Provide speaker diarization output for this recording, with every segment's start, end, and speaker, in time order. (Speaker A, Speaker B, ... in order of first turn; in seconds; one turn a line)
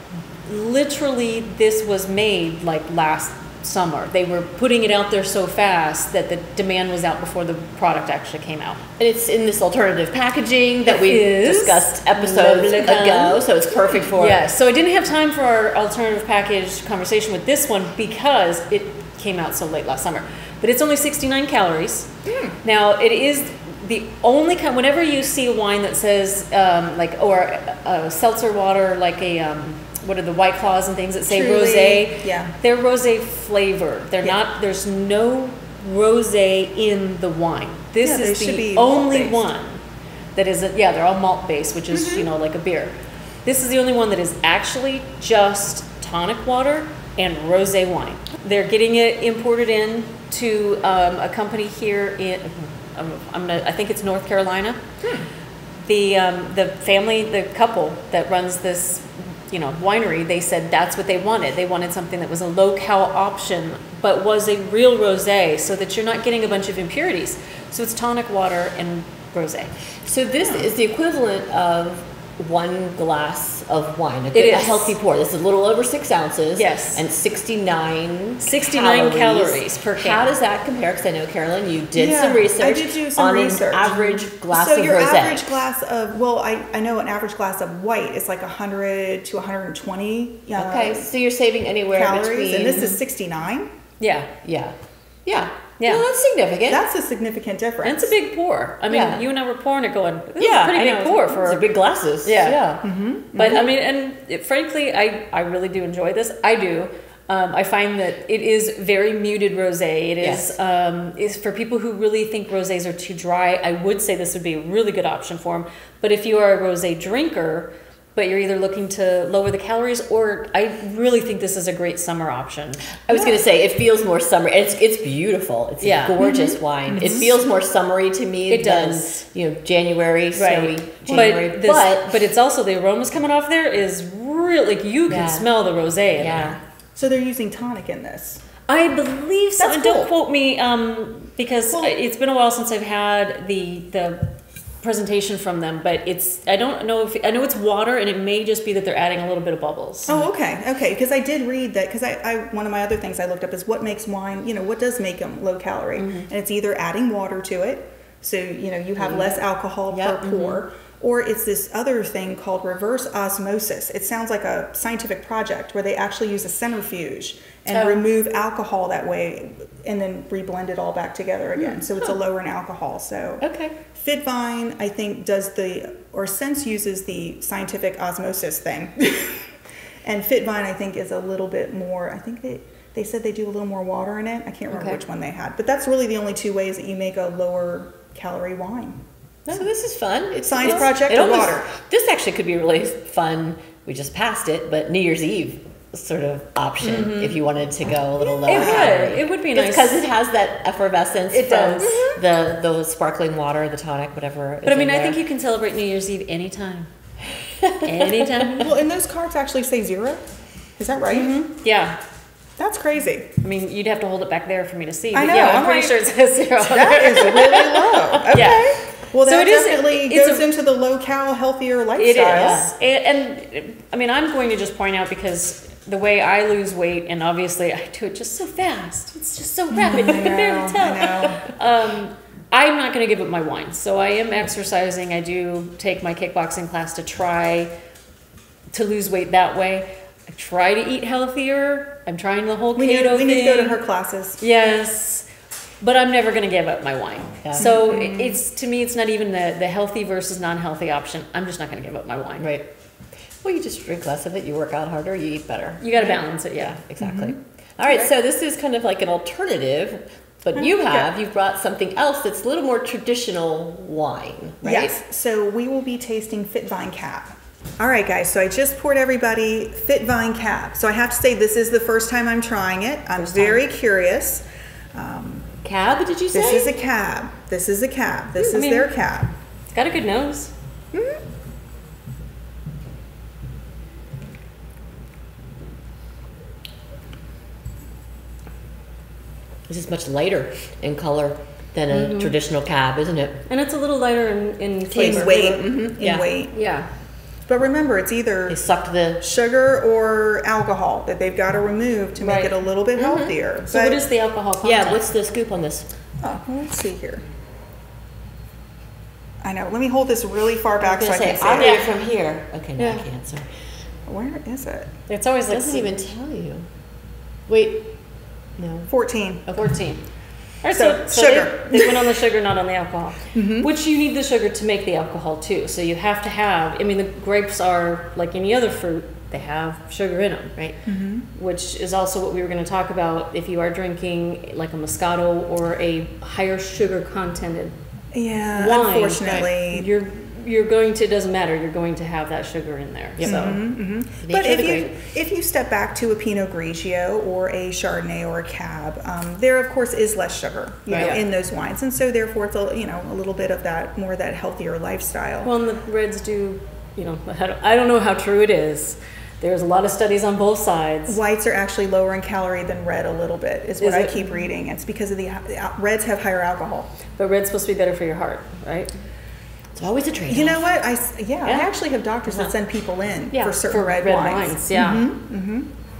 Speaker A: 0.5-8.8
Speaker B: 9.0-14.4
Speaker A: 10.8-13.5
Speaker A: 14.1-22.1
Speaker C: 22.2-22.6
Speaker A: 22.6-39.8
Speaker C: 31.3-32.5
Speaker C: 38.0-39.5
Speaker A: 40.3-54.8
Speaker C: 41.9-42.3
Speaker C: 55.0-55.3
Speaker A: 55.8-69.7
Speaker B: 70.0-85.6
Speaker A: 74.3-75.0
Speaker A: 76.5-77.0
Speaker A: 78.4-80.3
Speaker C: 81.9-91.1
Speaker B: 90.6-92.9
Speaker C: 91.9-93.7
Speaker A: 94.0-94.3
Speaker B: 94.4-94.7
Speaker B: 95.2-96.8
Speaker A: 95.8-96.0
Speaker C: 96.7-98.1
Speaker A: 97.8-101.7
Speaker B: 98.9-99.2
Speaker B: 100.4-103.7
Speaker A: 102.2-102.7
Speaker C: 102.8-103.7
Speaker A: 103.3-122.8
Speaker B: 110.2-110.5
Speaker B: 123.0-132.2
Speaker C: 123.1-123.4
Speaker A: 125.8-126.4
Speaker C: 126.2-127.3
Speaker A: 128.5-129.2
Speaker A: 130.3-136.6
Speaker B: 135.1-135.5
Speaker B: 136.2-136.6
Speaker C: 136.9-138.4
Speaker A: 138.7-150.1
Speaker C: 139.6-140.1
Speaker C: 141.7-141.9
Speaker C: 150.1-179.5
Speaker A: 155.9-156.3
Speaker B: 159.0-159.4
Speaker B: 159.9-160.6
Speaker B: 167.7-168.1
Speaker B: 171.6-172.2
Speaker B: 173.4-173.7
Speaker C: 180.0-189.0
Speaker A: 184.7-185.0
Speaker B: 189.5-205.2
Speaker C: 190.4-191.7
Speaker A: 196.8-197.4
Speaker C: 198.3-199.0
Speaker A: 198.4-200.0
Speaker A: 201.3-202.1
Speaker C: 201.8-202.1
Speaker A: 204.6-206.9
Speaker B: 207.6-208.5
Speaker A: 207.8-208.7
Speaker C: 208.6-210.2
Speaker C: 210.8-211.6
Speaker A: 211.1-212.0
Speaker C: 212.6-213.3
Speaker A: 213.4-217.6
Speaker C: 215.1-222.7
Speaker A: 218.3-220.4
Speaker A: 222.0-237.7
Speaker B: 222.3-222.7
Speaker C: 229.7-231.4
Speaker A: 238.7-243.8
Speaker C: 242.8-244.4
Speaker A: 244.4-245.3
Speaker A: 245.8-252.5
Speaker B: 247.4-247.7
Speaker C: 247.6-248.4
Speaker B: 252.4-252.7
Speaker B: 253.4-265.0
Speaker A: 255.8-256.8
Speaker C: 257.0-257.4
Speaker C: 260.5-261.1
Speaker C: 264.6-275.5
Speaker A: 273.1-273.6
Speaker B: 275.6-276.7
Speaker C: 276.3-279.3
Speaker A: 278.4-278.9
Speaker A: 279.7-280.5
Speaker C: 280.9-281.2
Speaker B: 289.7-293.4
Speaker A: 291.9-292.4
Speaker A: 293.5-295.5
Speaker B: 294.9-296.3
Speaker C: 294.9-296.6
Speaker A: 296.5-296.9
Speaker C: 297.4-304.0
Speaker B: 298.5-299.2
Speaker A: 302.2-302.6
Speaker B: 302.9-303.4
Speaker A: 303.7-305.0
Speaker B: 304.6-305.9
Speaker C: 306.2-307.2
Speaker C: 309.4-311.9
Speaker B: 310.8-313.4
Speaker A: 311.6-311.9
Speaker A: 312.8-313.0
Speaker C: 314.1-314.9
Speaker A: 315.1-315.9
Speaker B: 315.5-316.6
Speaker B: 317.5-317.9
Speaker B: 318.6-318.9
Speaker C: 318.9-319.4
Speaker B: 319.5-319.7
Speaker A: 319.5-320.0
Speaker A: 320.6-330.6
Speaker C: 320.7-321.9
Speaker C: 323.3-323.7
Speaker C: 330.8-331.2
Speaker A: 331.3-337.7
Speaker C: 338.1-339.9
Speaker A: 338.5-343.6
Speaker B: 343.2-343.6
Speaker C: 343.2-355.5
Speaker B: 344.2-344.9
Speaker B: 350.9-351.2
Speaker A: 350.9-351.2
Speaker A: 355.4-361.2
Speaker C: 361.1-366.9
Speaker A: 363.8-364.4
Speaker A: 367.1-368.9
Speaker B: 369.8-370.6
Speaker C: 370.3-375.7
Speaker A: 373.3-375.1